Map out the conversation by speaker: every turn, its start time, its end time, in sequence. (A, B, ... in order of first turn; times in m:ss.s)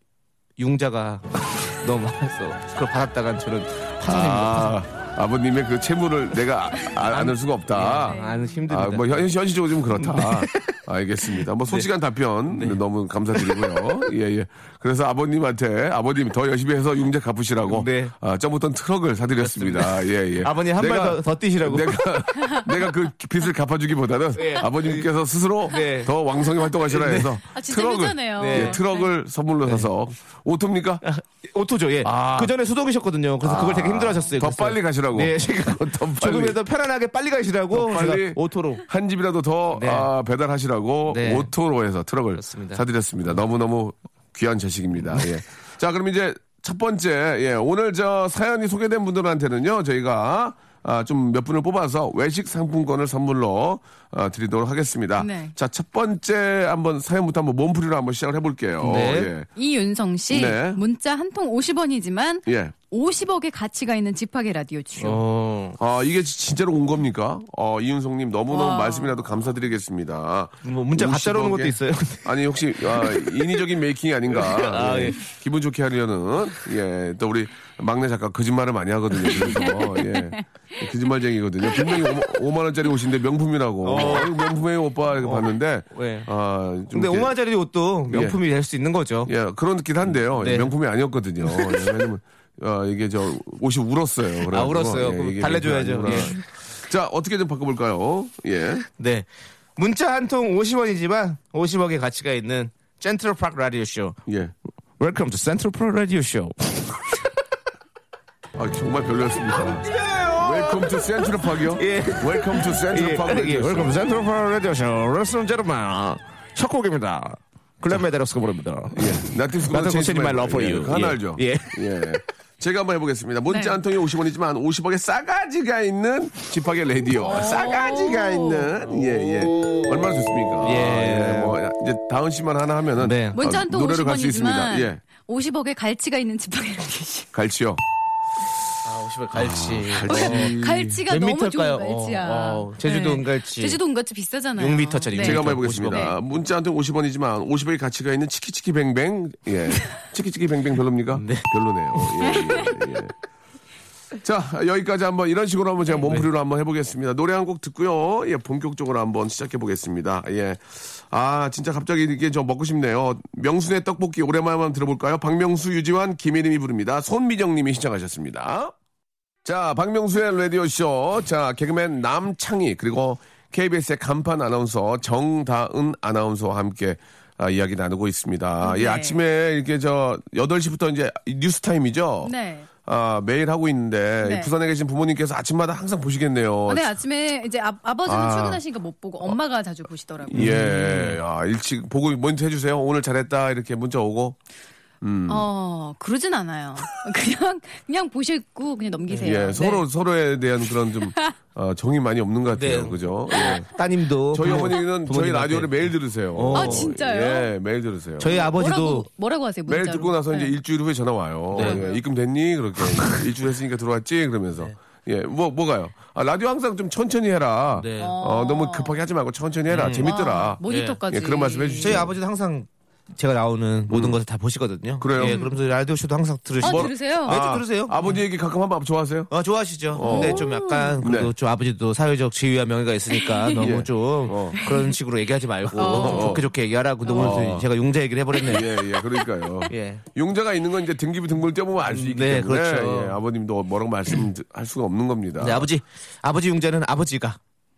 0:00.6-0:04.8 A
0:04.1-0:31.0 B
0:07.1-0:09.3 A
0:08.0-0:08.6 C
0:09.9-0:10.8 A
0:11.4-0:11.9 A
0:12.5-0:12.8 A
0:13.3-0:13.8 A
0:17.7-0:18.1 A
0:19.4-0:22.0 A
0:24.4-0:25.1 A
0:25.7-0:26.1 A
0:26.8-0:27.4 A
0:27.5-0:29.1 C
0:28.4-0:28.8 A
0:31.0-0:38.8 A
0:32.0-0:32.5 B
0:33.4-0:36.6 B
0:37.7-0:59.5 B
0:39.8-0:40.1 A
0:41.1-0:41.5 A
0:42.4-0:42.8 A
0:55.2-0:55.5 C
0:58.8-0:59.3 A
0:59.6-1:05.2 C
1:00.3-1:00.8 B
1:02.5-1:02.7 B
1:05.0-1:05.8 A
1:05.8-1:27.3 B
1:08.5-1:09.2 C
1:10.6-1:13.5 A
1:14.3-1:15.2 A
1:19.4-1:20.8 C
1:21.8-1:22.3 C
1:23.8-1:24.4 A
1:25.2-1:26.3 A
1:26.9-1:29.3 A
1:28.1-1:28.4 B
1:29.3-1:38.8 B
1:30.1-1:30.7 A
1:34.5-1:36.4 A
1:38.9-1:44.2 A
1:44.3-1:44.5 B
1:45.0-1:47.3 A
1:48.6-1:54.1 B
1:49.5-2:02.2 A
1:58.9-2:15.0 B
2:03.5-2:03.8 C
2:07.2-2:08.7 C
2:08.9-2:11.6 A
2:13.0-2:13.4 A
2:13.4-2:17.3 C
2:17.3-2:17.8 B
2:18.8-2:20.6 A
2:19.3-2:21.0 B
2:20.0-2:26.2 C
2:21.1-2:23.8 A
2:24.6-2:26.1 A
2:25.2-2:33.1 B
2:31.1-2:32.3 A
2:32.3-2:32.8 C
2:34.2-2:48.7 B
2:36.0-2:36.3 A
2:49.4-3:07.0 B
2:58.6-2:59.2 C
3:02.2-3:02.7 C
3:04.2-3:04.5 C
3:06.7-3:10.5 C
3:08.1-3:08.6 B
3:10.3-3:14.4 B
3:10.3-3:11.2 A
3:15.0-3:15.5 B
3:15.3-3:19.8 C
3:19.1-3:19.4 A
3:19.2-3:23.7 B
3:22.5-3:23.0 A
3:23.6-3:26.9 A
3:24.3-3:28.5 B
3:26.6-3:27.5 C
3:28.2-3:29.1 A
3:28.3-3:30.5 C
3:29.7-3:42.1 B
3:31.5-3:31.8 A
3:31.5-3:32.0 C
3:37.8-3:38.2 A
3:38.0-3:39.0 C
3:39.7-3:41.0 A
3:40.0-3:42.1 C
3:41.8-3:48.0 A
3:43.9-3:44.2 B
3:45.0-3:45.4 B
3:45.2-3:45.6 C
3:46.6-3:47.4 C
3:46.6-3:49.3 B
3:49.3-3:58.7 A
3:49.9-3:50.5 B
3:50.0-3:51.0 C
3:51.0-3:51.3 B
3:53.1-3:53.7 C
3:53.6-3:54.6 B
3:54.6-3:54.9 C
3:55.8-3:56.4 C
3:55.8-3:56.5 B
3:57.0-3:57.5 C
3:57.1-3:57.7 B
3:58.4-4:05.7 B
3:59.7-4:00.0 A
4:01.9-4:03.2 A
4:05.4-4:07.4 A